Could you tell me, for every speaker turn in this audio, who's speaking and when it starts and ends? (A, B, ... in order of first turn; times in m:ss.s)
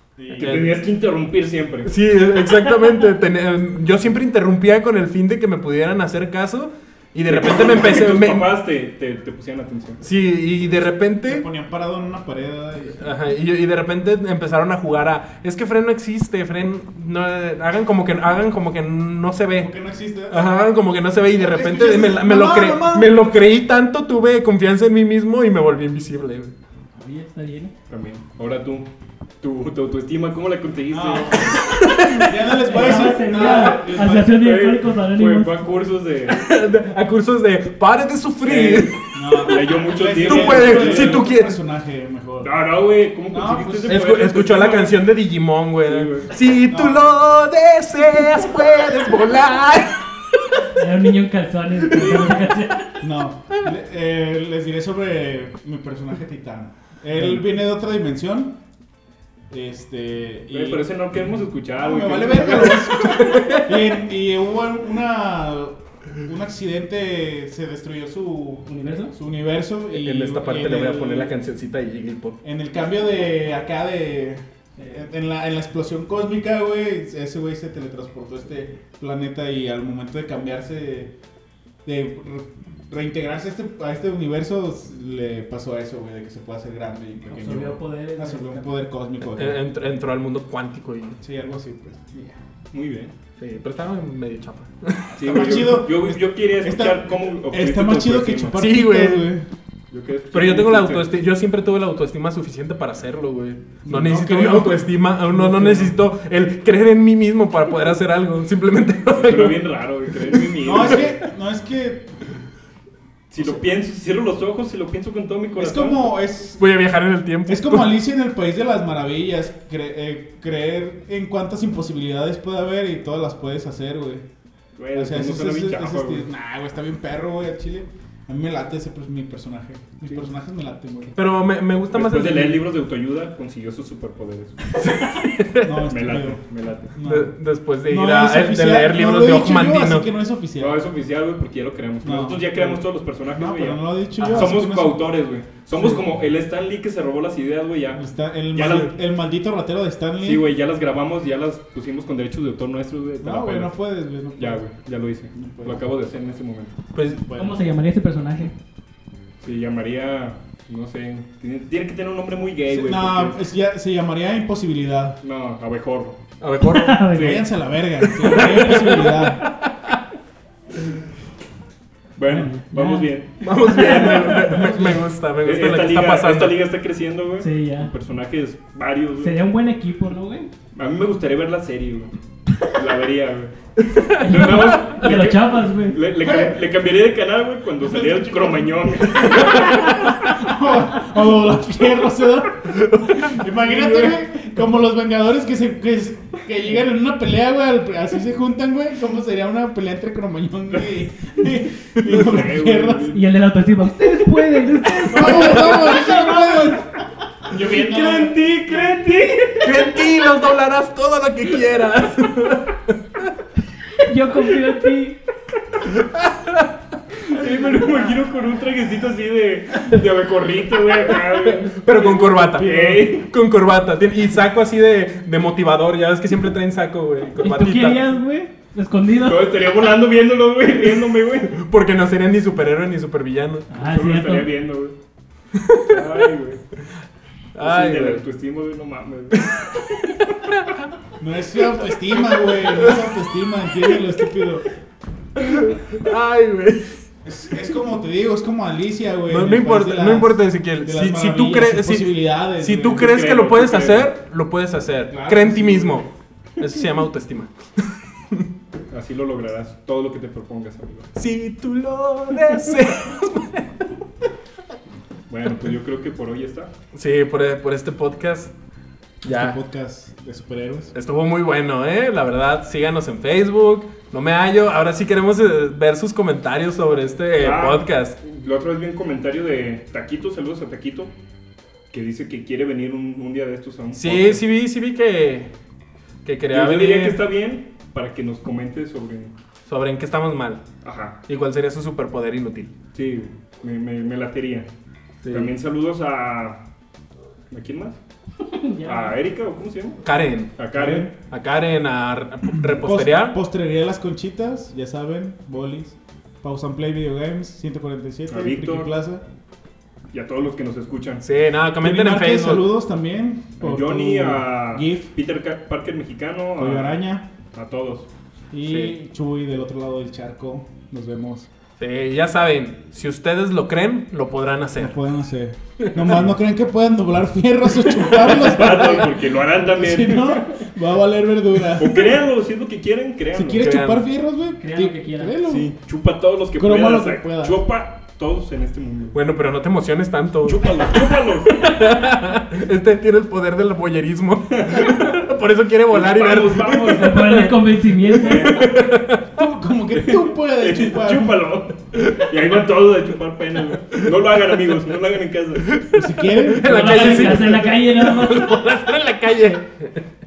0:00.2-0:00.6 A
0:00.3-0:01.9 B
0:00.4-0:00.8 C
0:01.8-0:08.5 C
0:07.3-0:10.0 B
0:10.0-0:11.4 C
0:11.2-0:13.1 A
0:13.0-0:19.7 C
0:19.6-0:20.5 A
0:20.3-0:26.5 C
0:21.3-0:23.2 A
0:26.9-0:27.7 D
0:27.9-0:28.9 B
0:29.4-0:31.6 B
0:30.9-0:34.4 A
0:31.7-0:32.5 C
0:32.5-0:35.5 D
0:32.8-0:36.4 B
0:36.3-0:39.6 C
0:38.4-0:41.2 B
0:39.1-0:42.5 A
0:40.2-0:41.6 C
0:42.4-0:45.0 B
0:43.3-0:44.0 A
0:43.9-0:50.0 C
0:45.8-0:46.3 B
0:46.7-0:47.0 A
0:50.7-0:53.0 D
0:51.9-0:52.5 C
0:53.0-0:58.6 A
0:59.5-1:00.8 A
1:00.5-1:02.9 B
1:01.8-1:11.3 A
1:02.9-1:03.7 C
1:08.6-1:09.1 D
1:09.9-1:12.4 C
1:12.4-1:21.1 A
1:21.8-1:29.6 A
1:27.3-1:28.8 D
1:29.3-1:31.2 C
1:31.2-1:32.3 A
1:32.7-1:33.1 B
1:33.4-1:35.8 C
1:35.2-1:38.5 B
1:35.2-1:39.5 A
1:38.5-1:39.3 C
1:39.9-1:41.0 B
1:40.3-1:51.0 C
1:43.8-1:46.0 A
1:49.1-1:51.1 B
1:50.6-1:52.2 A
1:53.3-1:56.1 B
1:53.4-1:53.7 A
1:55.6-1:56.6 A
1:56.6-1:58.0 C
1:57.4-2:04.2 A
2:04.8-2:06.2 B
2:04.9-2:11.1 A
2:11.1-2:12.7 C
2:11.9-2:14.7 B
2:14.8-2:15.9 C
2:15.6-2:16.4 A
2:15.9-2:16.9 B
2:16.9-2:17.3 A
2:17.0-2:20.1 C
2:17.8-2:20.8 A
2:20.6-2:29.0 B
2:22.0-2:25.0 A
2:24.2-2:24.5 C
2:25.7-2:26.0 C
2:27.9-2:30.5 A
2:30.2-2:33.7 B
2:33.2-2:34.6 A
2:34.4-2:36.8 B
2:35.3-2:35.8 A
2:36.9-2:37.2 C
2:37.0-2:37.6 A
2:37.3-2:38.5 D
2:39.4-2:43.4 B
2:42.7-2:45.2 A
2:45.2-2:46.2 B
2:46.4-2:47.0 C
2:46.6-2:47.5 D
2:47.1-2:47.4 B
2:47.1-2:49.4 A
2:48.0-2:49.9 C
2:48.4-2:49.3 B
2:52.2-2:59.3 B
2:52.3-2:53.1 D
2:53.4-2:56.6 C
2:53.7-2:55.0 D
2:57.4-2:57.9 D
2:59.2-3:00.5 D
3:00.7-3:03.5 B
3:03.8-3:04.9 C
3:04.2-3:06.0 D
3:04.2-3:10.0 B
3:06.2-3:06.6 A
3:07.9-3:23.2 A
3:09.5-3:10.1 C
3:12.7-3:13.4 C
3:13.6-3:14.2 B
3:22.0-3:23.2 B
3:23.1-3:26.8 D
3:25.1-3:26.9 A
3:27.4-3:28.9 A
3:27.5-3:30.0 B
3:29.6-3:32.9 C
3:34.0-3:35.2 D
3:35.8-3:36.7 C
3:37.2-3:43.3 B
3:41.1-3:48.1 C
3:42.0-3:43.1 A
3:47.4-3:49.5 D
3:49.2-3:51.6 B
3:51.5-3:53.7 C
3:53.7-3:54.5 D
3:53.8-3:55.0 B
3:55.5-3:56.2 C
3:55.9-3:56.6 B
3:57.5-3:58.2 C
3:57.6-3:59.5 B
3:59.8-4:00.7 C
4:01.2-4:04.6 A
4:02.3-4:03.1 C
4:05.4-4:07.0 C
4:07.2-4:13.1 A
4:09.3-4:18.5 C
4:13.0-4:14.1 B
4:15.1-4:16.0 A
4:18.9-4:21.1 B
4:21.2-4:23.9 C
4:25.3-4:26.7 B
4:26.9-4:28.5 C
4:29.2-4:29.6 C
4:29.2-4:30.9 A
4:30.9-4:38.2 C
4:37.4-4:41.1 B
4:41.9-4:44.4 B
4:43.9-4:45.5 C
4:46.2-4:47.2 C
4:46.5-4:49.3 B
4:49.7-4:50.6 C
4:50.8-4:51.2 B
4:51.3-4:52.7 C
4:52.9-4:54.7 B
4:55.2-4:55.5 C
4:55.3-4:56.6 B
4:57.5-4:58.0 B
4:58.4-4:59.2 D
4:58.8-5:00.0 B
5:00.0-5:03.4 C
5:00.6-5:01.1 B
5:00.7-5:01.1 A
5:02.5-5:09.2 A
5:08.3-5:08.9 B
5:10.1-5:11.2 B
5:11.2-5:12.6 C
5:11.8-5:15.1 A
5:13.6-5:17.0 B
5:16.6-5:17.2 A
5:17.5-5:18.1 B
5:18.5-5:21.5 A
5:18.6-5:18.9 C
5:21.8-5:25.0 C
5:24.8-5:32.2 A
5:25.8-5:26.2 C
5:27.8-5:28.9 C
5:28.2-5:30.6 B
5:31.7-5:33.7 B
5:33.3-5:35.7 A
5:33.5-5:34.0 C
5:34.6-5:35.4 D
5:35.4-5:39.2 B
5:36.6-5:37.6 A
5:39.1-5:49.2 C
5:40.4-5:41.6 B
5:44.5-5:45.2 B
5:45.9-5:47.3 B
5:46.8-5:48.5 D
5:48.2-5:48.7 B
5:49.3-5:51.5 A
5:49.9-5:55.8 B
5:55.7-6:00.0 C
5:55.9-5:57.6 A
5:56.6-5:58.6 D